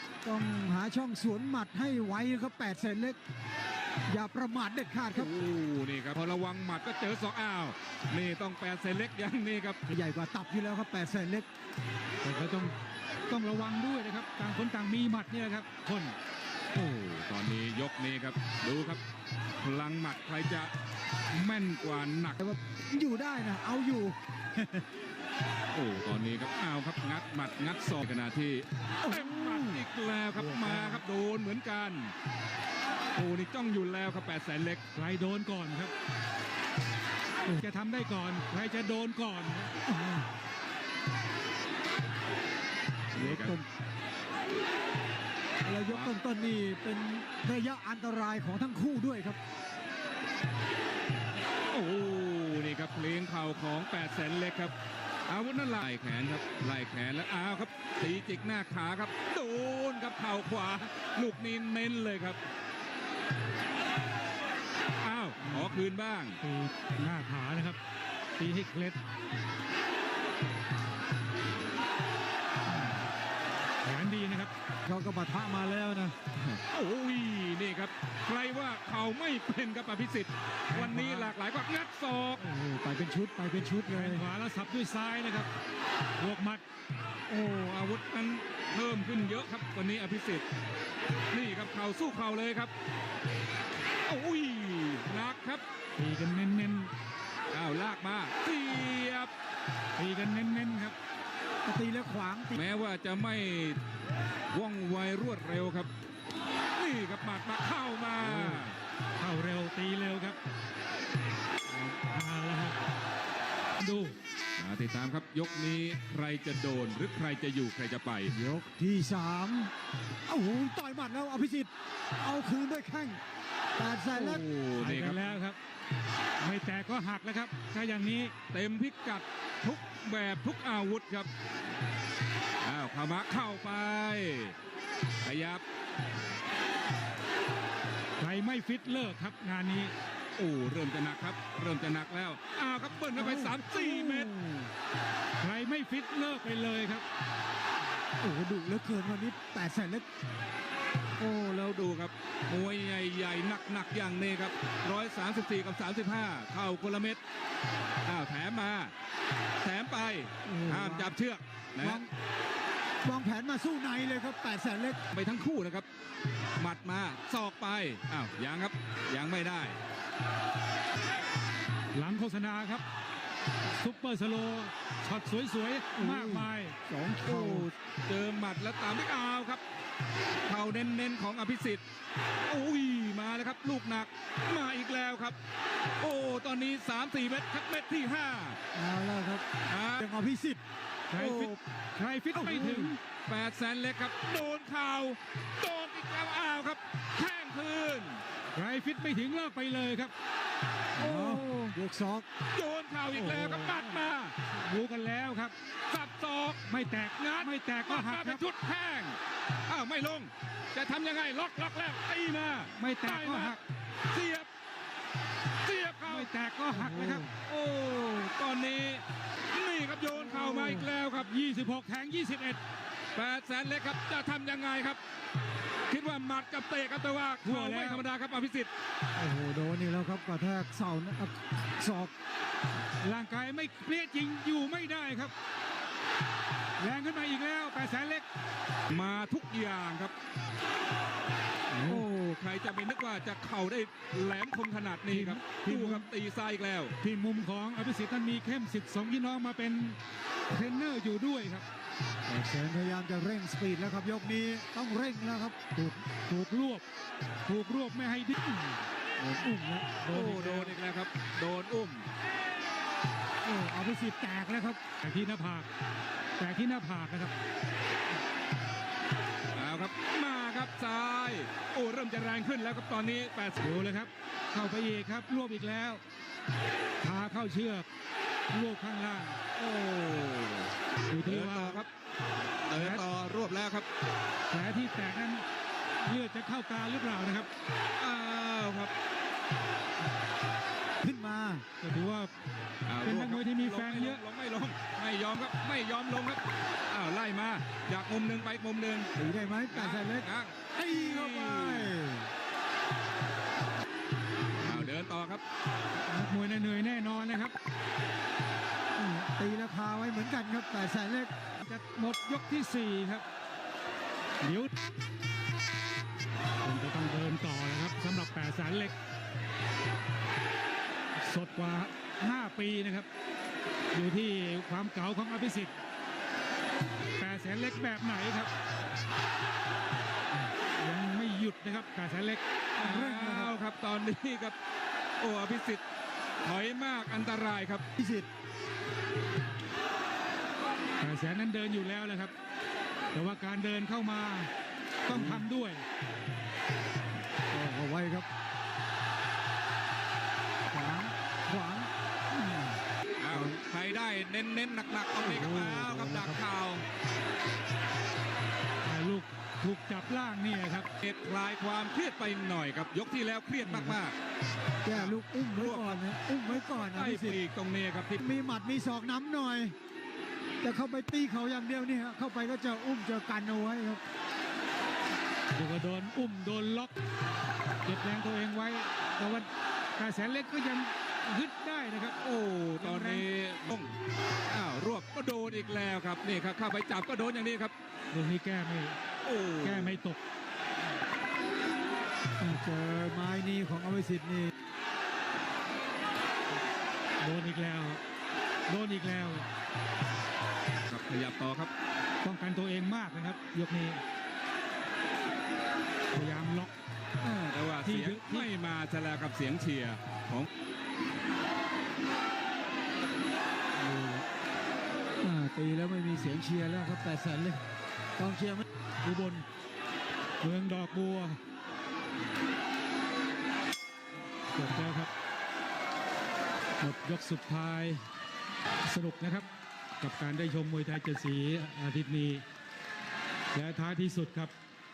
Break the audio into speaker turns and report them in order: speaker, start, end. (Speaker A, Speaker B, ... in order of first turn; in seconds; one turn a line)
Speaker A: 0.2-3.2
Speaker A: 4.1-5.3
Speaker B: 5.1-9.8
Speaker A: 9.9-11.5
Speaker C: 12.2-12.8
Speaker C: 13.3-16.2
Speaker B: 16.7-19.0
Speaker B: 19.6-20.7
Speaker B: 21.3-22.4
Speaker A: 22.4-24.9
Speaker B: 25.7-32.1
Speaker A: 29.0-29.8
Speaker C: 30.4-31.0
Speaker B: 33.1-34.8
Speaker C: 35.0-35.9
Speaker C: 37.5-39.7
Speaker A: 39.9-40.3
Speaker B: 43.1-43.5
Speaker A: 43.1-43.7
Speaker A: 45.6-49.4
Speaker B: 45.9-46.1
Speaker B: 51.7-54.7
Speaker B: 55.3-62.4
Speaker B: 65.0-66.4
Speaker A: 65.5-65.7
Speaker C: 66.4-67.8
Speaker C: 68.4-69.0
Speaker C: 73.8-74.5
Speaker A: 74.8-76.2
Speaker B: 76.4-82.4
Speaker C: 80.7-81.3
Speaker A: 82.4-84.2
Speaker C: 83.9-85.5
Speaker C: 86.2-86.6
Speaker B: 87.3-90.5
Speaker B: 91.3-92.7
Speaker B: 94.0-95.6
Speaker C: 96.0-96.9
Speaker B: 97.5-99.3
Speaker C: 100.0-101.0
Speaker A: 101.7-102.6
Speaker B: 102.5-103.8
Speaker B: 104.5-105.9
Speaker B: 106.8-108.8
Speaker A: 108.2-108.6
Speaker C: 109.2-110.4
Speaker C: 112.1-112.8
Speaker C: 113.8-114.1
Speaker B: 114.6-118.3
Speaker A: 118.3-119.7
Speaker A: 120.3-123.2
Speaker A: 123.8-124.5
Speaker B: 124.1-125.2
Speaker C: 124.8-125.6
Speaker C: 126.4-128.3
Speaker B: 128.5-131.3
Speaker B: 132.6-134.6
Speaker B: 135.2-135.6
Speaker C: 138.2-139.9
Speaker B: 140.4-144.3
Speaker A: 143.2-144.7
Speaker C: 145.4-147.0
Speaker A: 148.2-150.1
Speaker B: 151.2-157.2
Speaker B: 158.1-158.9
Speaker B: 159.6-162.0
Speaker A: 160.4-161.1
Speaker A: 161.8-162.1
Speaker A: 163.0-165.0
Speaker B: 165.1-165.9
Speaker B: 166.6-169.8
Speaker C: 171.9-172.8
Speaker C: 173.8-176.8
Speaker A: 175.9-177.7
Speaker B: 177.2-179.6
Speaker B: 180.5-181.8
Speaker B: 182.5-185.4
Speaker B: 186.0-188.6
Speaker A: 188.8-189.4
Speaker B: 189.7-190.1
Speaker A: 190.0-190.6
Speaker C: 191.1-193.0
Speaker B: 191.2-191.5
Speaker A: 191.2-191.6
Speaker A: 192.3-192.9
Speaker B: 193.3-198.2
Speaker C: 198.6-200.1
Speaker A: 201.0-202.3
Speaker C: 201.0-201.8
Speaker B: 202.5-204.4
Speaker C: 203.1-204.0
Speaker C: 204.6-205.6
Speaker B: 205.9-214.5
Speaker C: 206.7-208.4
Speaker C: 212.8-213.6
Speaker B: 215.6-216.3
Speaker C: 216.1-217.3
Speaker A: 216.7-217.3
Speaker B: 217.4-221.3
Speaker C: 220.3-222.6
Speaker B: 223.2-225.0
Speaker B: 225.9-228.7
Speaker C: 227.4-228.0
Speaker A: 229.2-232.1
Speaker C: 233.0-235.3
Speaker C: 236.8-238.2
Speaker B: 238.9-240.1
Speaker C: 241.8-242.1
Speaker B: 241.8-247.0
Speaker C: 245.1-246.1
Speaker C: 247.0-250.0
Speaker C: 250.5-251.7
Speaker A: 252.3-256.0
Speaker C: 256.1-256.8
Speaker C: 257.5-258.8
Speaker A: 259.2-260.2
Speaker C: 260.0-260.8
Speaker B: 260.1-262.1
Speaker A: 263.4-264.8
Speaker C: 265.0-265.7
Speaker C: 266.4-267.3
Speaker B: 269.6-273.7
Speaker C: 273.6-276.0
Speaker C: 277.0-277.9
Speaker C: 278.5-279.4
Speaker B: 279.6-281.9
Speaker C: 281.1-281.8
Speaker B: 282.7-283.9
Speaker C: 282.8-283.1
Speaker C: 284.5-285.4
Speaker C: 286.0-287.5
Speaker B: 288.0-288.9
Speaker A: 291.0-291.6
Speaker C: 291.8-292.3
Speaker B: 292.9-299.1
Speaker C: 293.0-294.2
Speaker A: 299.2-302.3
Speaker B: 299.7-301.9
Speaker B: 304.6-305.4
Speaker A: 304.6-304.9
Speaker C: 306.1-307.6
Speaker A: 309.0-311.3
Speaker C: 311.6-313.2
Speaker C: 314.4-314.7
Speaker C: 316.6-318.9
Speaker C: 321.2-323.1
Speaker C: 323.9-325.7
Speaker C: 327.2-328.5
Speaker C: 330.8-332.4
Speaker B: 332.8-334.6
Speaker A: 332.8-333.5
Speaker B: 335.2-335.8
Speaker B: 336.4-337.8
Speaker A: 338.0-338.3
Speaker C: 341.0-342.3
Speaker C: 343.1-344.5
Speaker C: 345.1-345.8
Speaker A: 345.1-345.4
Speaker A: 347.5-348.3
Speaker A: 350.7-352.8
Speaker B: 353.2-356.9
Speaker A: 353.3-353.6
Speaker A: 355.2-356.4
Speaker C: 358.9-360.9
Speaker B: 361.0-364.2
Speaker A: 364.8-367.4
Speaker B: 364.9-368.2
Speaker A: 368.2-369.8
Speaker A: 370.6-374.0
Speaker C: 375.6-376.9
Speaker C: 377.9-382.2
Speaker B: 382.2-383.9
Speaker C: 382.8-383.3
Speaker B: 384.5-387.7
Speaker C: 388.1-389.0
Speaker B: 389.2-390.0
Speaker C: 389.6-390.2
Speaker A: 392.4-394.5
Speaker C: 397.2-398.0
Speaker C: 398.7-399.5
Speaker B: 400.9-401.7
Speaker C: 402.2-404.0
Speaker C: 406.1-406.7
Speaker A: 407.2-407.5
Speaker B: 407.5-410.5
Speaker C: 407.8-408.5
Speaker A: 413.8-414.3
Speaker A: 415.2-417.6
Speaker A: 418.2-418.7
Speaker C: 419.0-419.4
Speaker C: 420.4-421.4
Speaker C: 424.6-425.1
Speaker C: 426.8-428.0
Speaker C: 428.9-429.5
Speaker C: 430.0-432.4
Speaker C: 433.5-434.5